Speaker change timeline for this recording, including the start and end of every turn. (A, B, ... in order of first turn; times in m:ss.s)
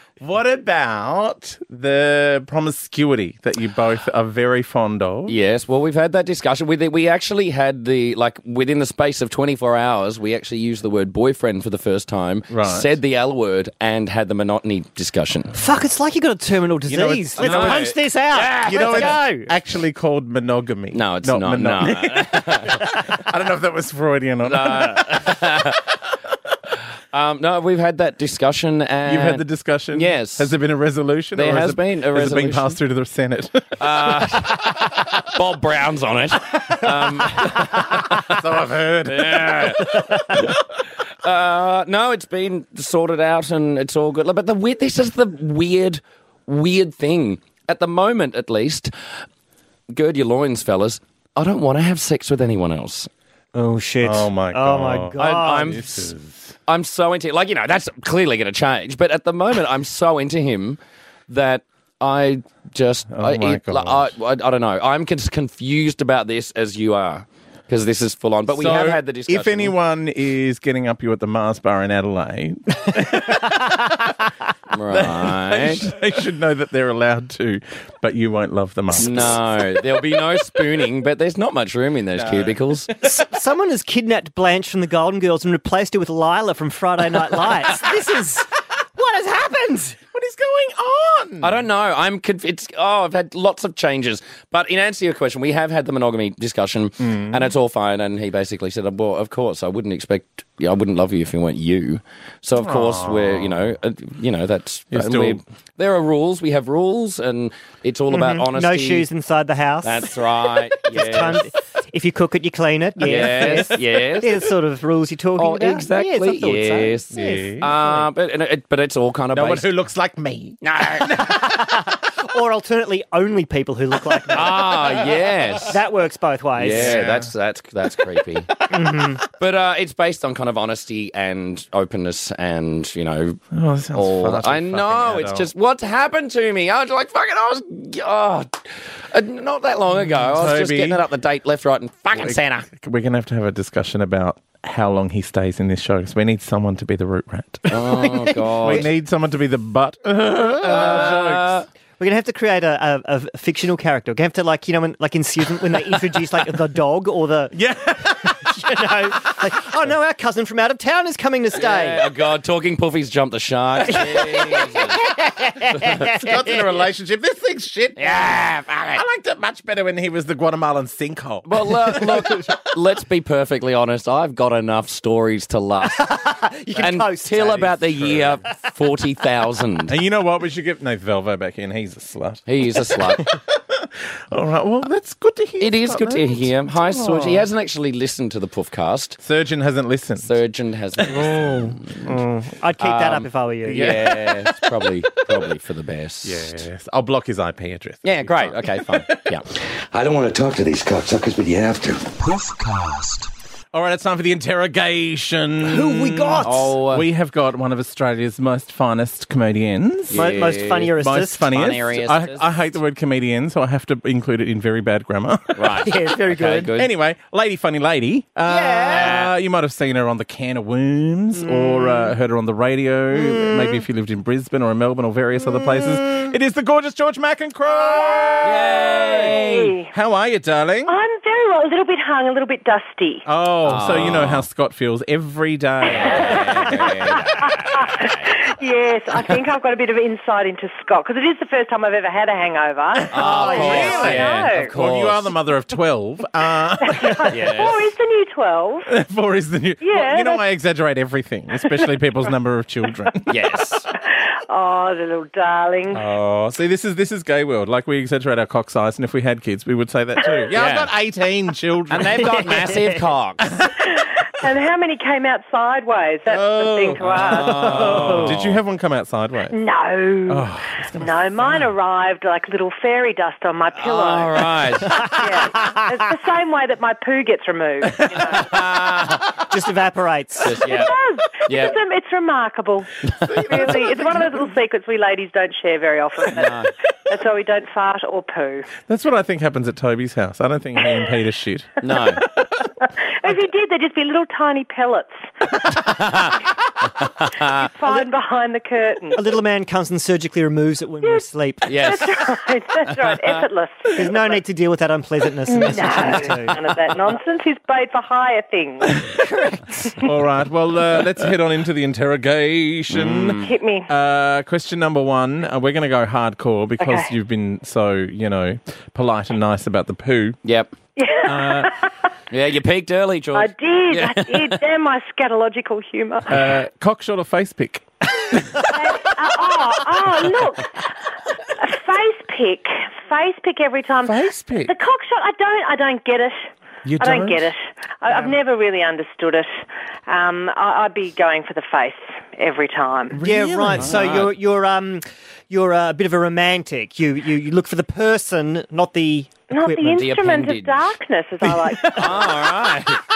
0:00.2-0:05.4 A
0:05.3-0:15.6 B
0:12.5-0:12.9 A
0:15.6-0:19.5 C
0:16.9-0:18.0 A
0:17.4-0:19.2 B
0:18.6-0:25.4 A
0:20.9-0:22.9 B
0:24.4-0:25.8 B
0:27.1-0:30.5 B
0:29.0-0:34.5 A
0:31.4-0:32.8 B
0:33.8-0:38.4 B
0:37.5-0:40.5 A
0:39.0-0:40.4 B
0:41.2-0:48.9 B
0:49.9-0:53.1 B
0:53.5-0:55.8 C
0:54.0-0:56.5 A
0:55.2-0:56.1 B
0:56.7-1:09.8 B
1:03.1-1:04.1 A
1:08.5-1:14.1 A
1:14.7-1:15.9 B
1:14.9-1:19.4 A
1:19.0-1:22.9 B
1:22.2-1:23.1 A
1:23.0-1:30.0 C
1:30.1-1:31.6 A
1:31.4-1:49.1 B
1:37.0-1:37.5 A
1:42.6-1:43.7 A
1:44.9-1:45.4 A
1:48.1-1:50.2 C
1:49.8-1:51.5 B
1:50.8-1:57.6 C
1:53.0-1:54.5 B
1:53.2-1:53.6 A
1:55.4-1:59.7 B
1:57.1-1:58.1 A
1:59.3-2:01.5 A
2:00.6-2:01.2 B
2:01.2-2:04.8 C
2:04.3-2:05.8 B
2:05.7-2:07.0 C
2:06.6-2:08.5 B
2:06.6-2:07.3 A
2:08.7-2:09.2 C
2:09.3-2:13.4 B
2:13.5-2:15.5 A
2:13.9-2:18.6 B
2:19.1-2:22.7 B
2:19.9-2:21.0 A
2:22.1-2:31.6 A
2:27.7-2:28.9 B
2:28.6-2:28.9 C
2:30.6-2:31.2 C
2:30.6-2:31.7 B
2:32.0-2:37.6 C
2:37.5-2:38.6 A
2:38.2-2:42.1 C
2:41.5-2:45.0 B
2:43.9-2:46.6 C
2:46.0-2:52.5 A
2:48.0-2:49.0 B
2:51.4-2:56.1 B
2:55.8-2:57.8 C
2:56.8-2:59.9 B
2:57.9-2:58.4 A
2:59.9-3:07.5 A
3:02.5-3:03.2 B
3:05.6-3:09.2 B
3:09.2-3:10.4 A
3:10.2-3:11.9 B
3:11.0-3:12.2 A
3:11.2-3:14.0 C
3:12.8-3:16.6 B
3:13.7-3:14.9 A
3:16.2-3:19.2 A
3:18.0-3:19.4 B
3:19.9-3:23.3 D
3:23.7-3:35.9 A
3:25.6-3:26.7 C
3:26.4-3:27.1 B
3:30.1-3:31.0 B
3:30.1-3:31.5 C
3:31.5-3:32.5 B
3:35.6-3:36.9 B
3:35.8-3:36.7 C
3:36.7-3:50.9 A
3:38.4-3:39.2 C
3:38.9-3:39.3 B
3:41.4-3:42.1 C
3:43.1-3:43.8 C
3:45.5-3:46.3 C
3:47.7-3:49.9 E
3:48.4-3:49.7 B
3:50.9-3:53.2 E
3:53.3-3:56.8 A
3:53.6-3:54.4 B
3:55.9-3:58.4 B
3:56.0-3:56.8 E
3:57.4-4:04.7 E
4:03.1-4:05.3 B
4:03.2-4:04.2 C
4:03.2-4:07.3 A
4:06.8-4:08.9 E
4:07.3-4:07.9 B
4:08.9-4:13.3 A
4:09.8-4:10.4 E
4:13.3-4:13.9 B
4:14.5-4:16.0 E
4:15.9-4:22.5 A
4:20.5-4:20.9 B
4:21.9-4:23.5 B
4:22.2-4:23.0 C
4:23.9-4:27.9 E
4:26.3-4:29.6 A
4:27.0-4:28.6 B
4:27.9-4:28.3 C
4:29.5-4:38.4 E
4:30.3-4:31.6 A
4:33.8-4:35.0 B
4:35.6-4:35.8 C
4:37.8-4:38.5 A
4:38.3-4:39.3 B
4:39.5-4:40.6 C
4:40.4-4:41.8 B
4:40.6-4:48.7 E
4:43.2-4:44.5 A
4:46.3-4:46.7 B
4:48.9-4:51.8 A
4:51.8-4:52.2 B
4:52.8-4:55.2 E
4:55.7-4:57.7 B
4:57.5-4:59.2 E
4:59.2-5:01.7 C
5:01.0-5:04.4 E
5:01.7-5:02.2 B
5:04.0-5:06.6 C
5:05.5-5:09.0 E
5:09.2-5:10.0 C
5:10.0-5:20.4 A
5:12.9-5:13.5 B
5:13.4-5:13.9 E
5:16.8-5:17.1 E
5:20.4-5:20.7 B
5:21.0-5:21.9 E
5:21.2-5:21.7 A
5:22.3-5:24.6 B
5:23.3-5:26.4 E
5:26.3-5:29.0 A
5:28.7-5:30.9 E
5:31.6-5:39.5 E
5:34.0-5:34.7 A
5:36.8-5:37.5 A
5:40.1-5:43.2 E
5:43.1-5:44.3 A
5:43.2-5:50.0 C
5:43.8-5:44.3 B
5:49.5-5:52.3 E
5:49.9-5:50.9 B
5:51.4-5:52.3 A
5:51.9-5:53.0 B